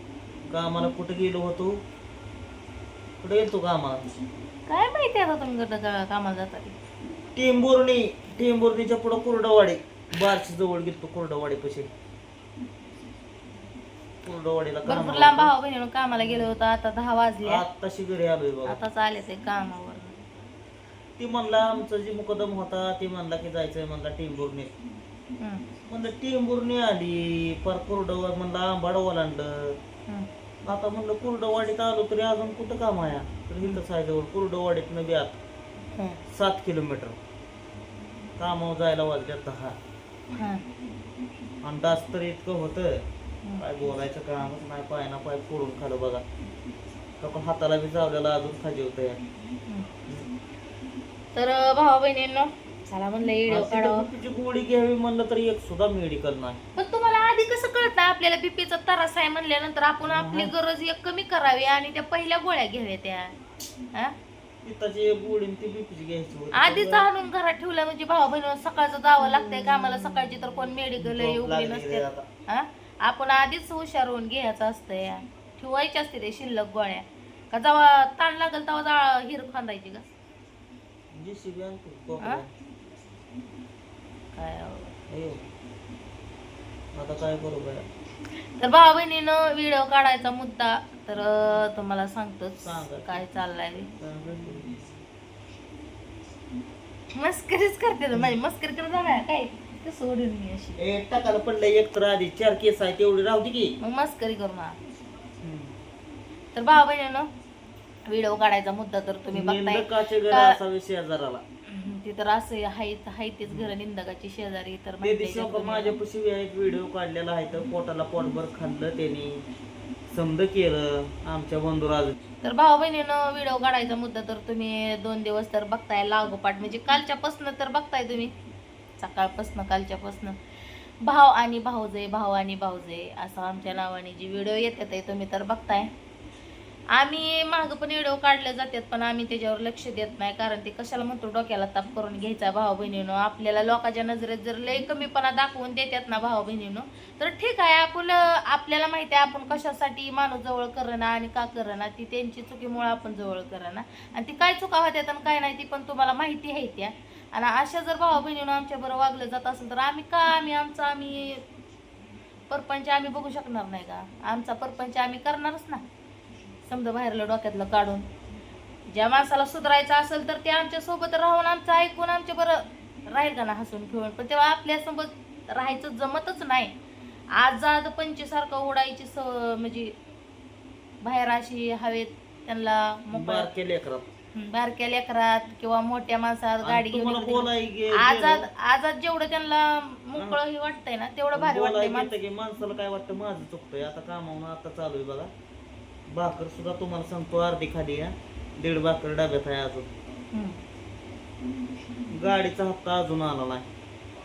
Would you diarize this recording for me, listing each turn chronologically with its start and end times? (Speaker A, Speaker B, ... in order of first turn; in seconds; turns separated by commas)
Speaker A: 0.5-1.8, Speaker A: 3.2-4.0, Speaker B: 4.7-6.8, Speaker A: 7.4-11.9, Speaker A: 14.2-15.5, Speaker B: 14.9-17.6, Speaker A: 17.4-18.8, Speaker B: 18.7-20.1, Speaker A: 21.2-24.8, Speaker B: 25.4-25.6, Speaker A: 25.9-29.8, Speaker A: 30.6-35.4, Speaker B: 36.0-36.2, Speaker A: 36.3-37.2, Speaker A: 38.4-39.8, Speaker B: 40.3-40.6, Speaker A: 41.6-43.0, Speaker A: 43.6-46.2, Speaker A: 47.2-49.2, Speaker B: 51.4-54.1, Speaker A: 53.5-56.6, Speaker B: 56.8-63.3, Speaker A: 60.0-60.5, Speaker A: 64.6-67.1, Speaker B: 66.5-80.0, Speaker A: 71.0-72.3, Speaker A: 81.2-82.5, Speaker B: 84.3-85.0, Speaker A: 85.1-85.4, Speaker A: 87.0-87.9, Speaker B: 88.6-93.9, Speaker A: 92.6-93.2, Speaker A: 94.0-94.9, Speaker B: 97.1-100.8, Speaker A: 100.8-103.8, Speaker B: 103.8-104.8, Speaker A: 105.4-105.8, Speaker B: 106.5-107.3, Speaker B: 108.1-110.6, Speaker A: 109.3-111.4, Speaker B: 111.7-116.0, Speaker A: 115.0-119.5, Speaker A: 120.1-122.2, Speaker B: 122.4-128.3, Speaker B: 129.0-130.4, Speaker B: 131.0-135.9, Speaker B: 136.9-161.4, Speaker B: 162.5-165.8, Speaker B: 166.6-168.1, Speaker B: 168.9-176.7, Speaker B: 177.3-180.0, Speaker B: 181.0-183.5, Speaker A: 183.1-184.1, Speaker B: 184.3-192.1, Speaker A: 186.6-188.5, Speaker A: 190.2-190.4, Speaker A: 191.3-195.3, Speaker A: 196.1-199.9, Speaker B: 200.3-200.6, Speaker A: 202.1-203.7